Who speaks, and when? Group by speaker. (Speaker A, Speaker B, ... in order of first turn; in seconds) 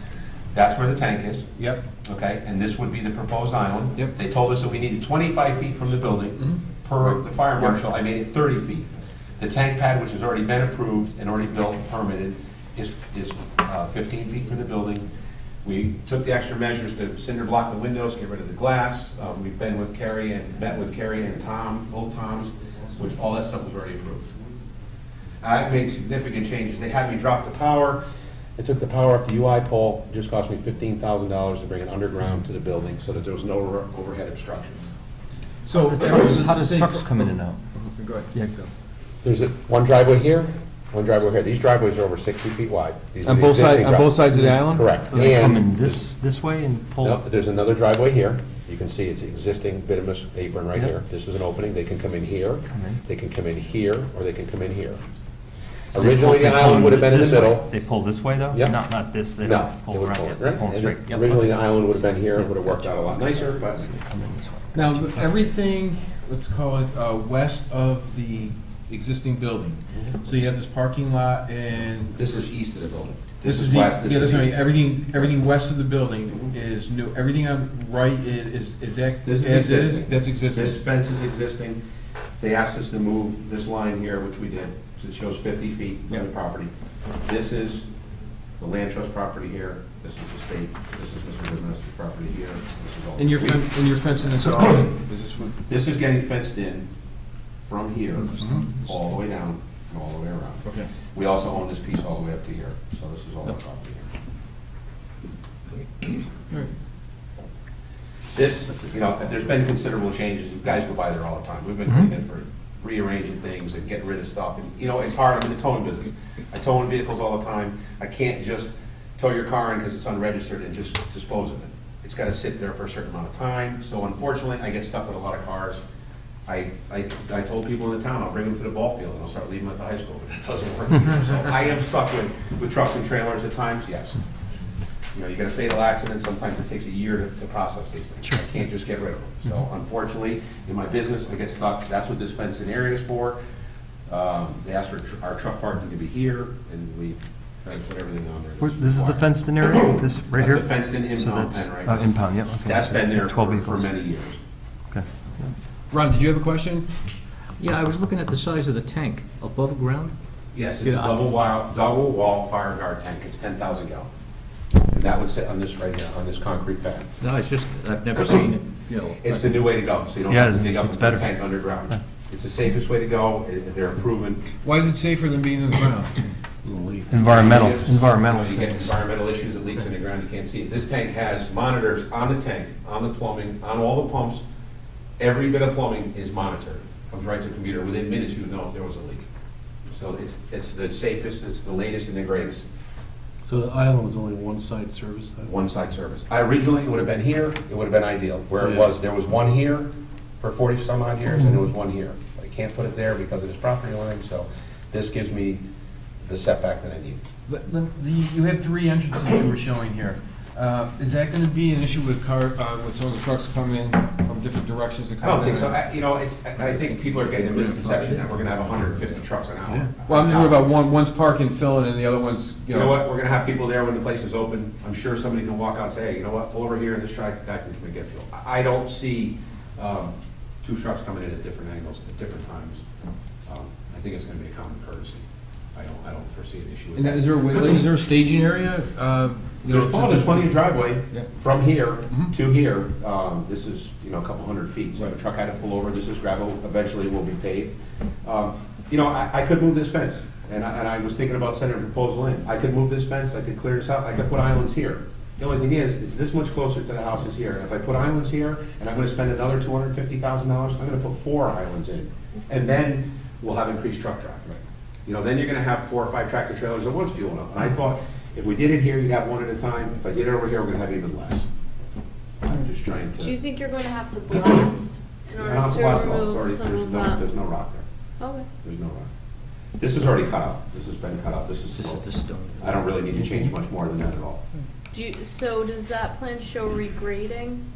Speaker A: 0.5-1.5, 2.0-8.9, 9.4-15.1, 15.6-24.3, 25.4-28.0, 28.6-34.8, 39.2-46.0, 47.0-55.0, 55.9-57.7, 59.4-63.9, 69.9-70.2, 72.1-74.6, 79.2-81.8, 82.4-86.7, 87.2-87.9, 88.6-94.8, 95.7-96.9, 97.6-104.1, 108.3-125.8, 126.5-134.2, 135.1-143.4, 144.1-154.4, 160.5-164.1, 164.9-167.1, 169.2-174.5, 177.2-184.4, 185.2-189.2, 189.9-192.6, 195.4-199.9, 200.4-205.6, 206.2-207.2, 215.2-220.6, 222.7-232.8, 233.5-237.3, 239.7-271.5, 272.4-273.4, 275.4-277.9, 278.6-279.1, 279.8-284.4
Speaker B: 1.6-1.8, 35.7-37.3, 38.0-38.2, 43.2-44.9, 64.7-72.3, 73.4-80.8, 93.2-95.5, 98.4-98.8, 100.6-100.9, 155.9-156.9, 174.6-176.8, 207.5-215.8, 216.7-218.2, 219.7-222.9, 237.0-241.3
Speaker C: 35.7-37.6, 38.3-38.7, 44.3-47.2, 52.7-53.0, 56.0-61.5, 62.4-65.3, 148.6-153.9, 154.9-155.5, 170.3-171.4, 177.1-178.9
Speaker D: 157.6-160.2, 160.8-161.3, 167.2-169.6, 282.0-282.8
Speaker E: 193.5-195.5
Speaker F: 273.2-277.3, 278.2-278.5, 284.9-287.6